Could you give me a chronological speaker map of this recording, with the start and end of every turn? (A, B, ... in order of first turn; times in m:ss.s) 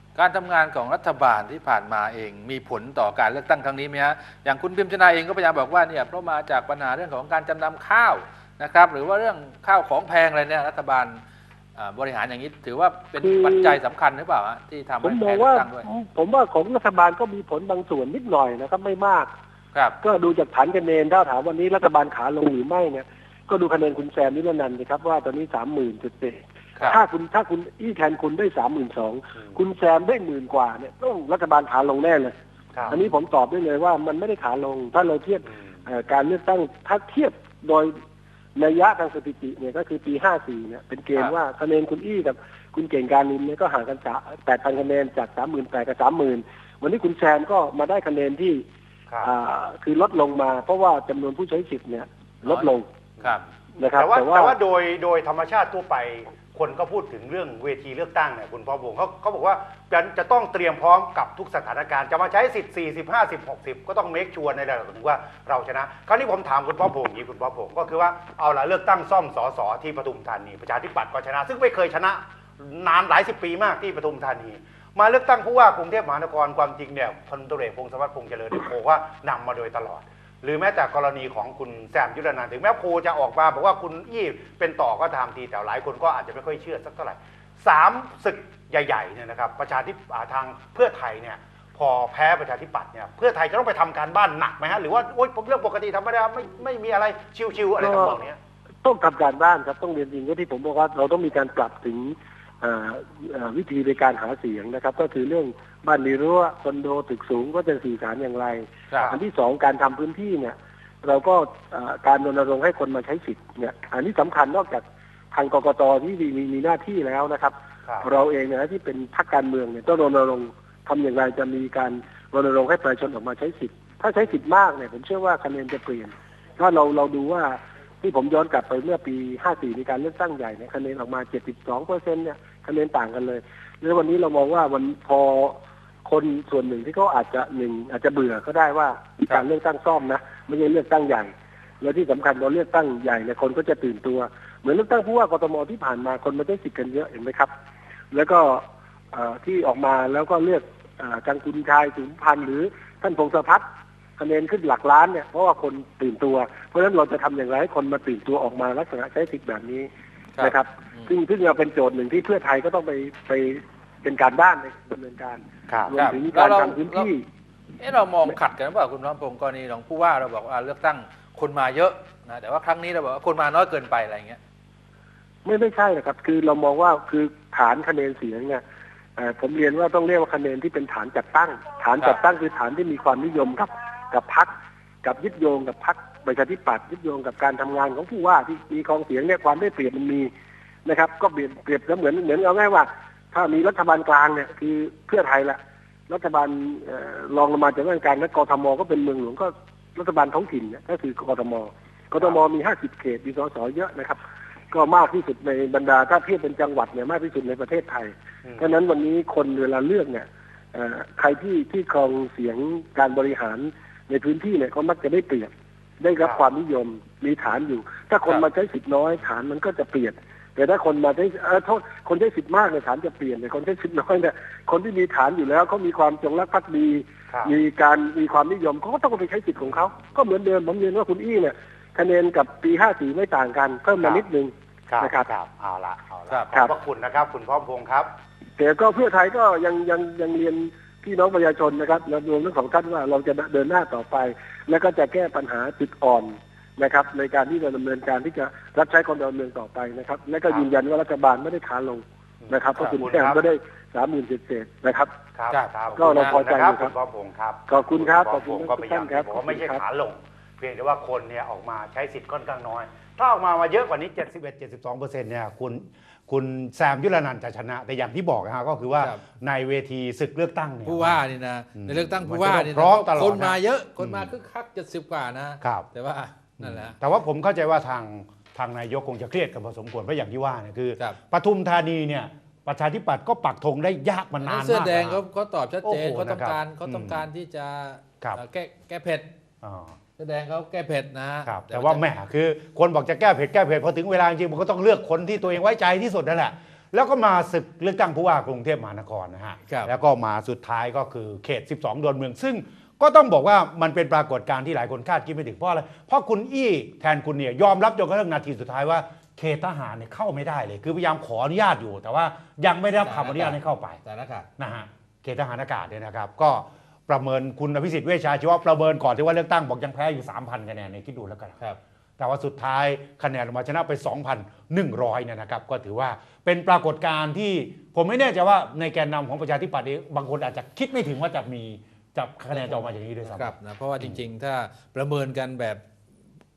0:00.2-0:11.2 A
0:11.8-0:15.8 A
0:13.2-0:13.8 B
0:15.0-0:19.3 B
0:20.0-0:32.3 B
0:32.9-0:38.0 B
0:38.6-0:48.6 B
0:49.2-0:52.9 B
0:52.4-0:53.4 A
0:53.2-1:38.4 C
0:53.8-0:54.6 B
1:37.8-1:38.2 B
1:38.8-2:27.5 B
2:28.1-2:33.6 B
2:34.2-2:39.9 B
2:40.4-2:41.1 A
2:40.4-2:47.2 B
2:45.9-2:47.1 A
2:47.8-2:54.4 A
2:55.4-2:58.6 B
2:59.2-3:04.5 B
3:05.0-3:10.3 B
3:10.8-3:15.6 B
3:16.1-3:24.2 B
3:24.7-3:55.3 B
3:47.3-3:47.6 C
3:54.9-3:58.1 C
3:58.6-4:15.1 B
4:12.4-4:13.4 C
4:15.4-4:31.2 C
4:15.5-4:16.4 A
4:16.0-4:16.9 B
4:17.7-4:19.8 B
4:30.8-4:37.0 A
4:31.8-4:34.3 C
4:35.6-4:35.9 C
4:36.6-4:45.2 C
4:44.4-4:49.3 A
4:45.8-4:47.2 C
4:49.6-4:50.0 C
4:50.2-4:52.0 A
4:51.4-5:14.0 C
5:13.0-5:14.5 A
5:14.6-5:21.6 C
5:22.2-5:34.2 C
5:32.5-5:35.8 A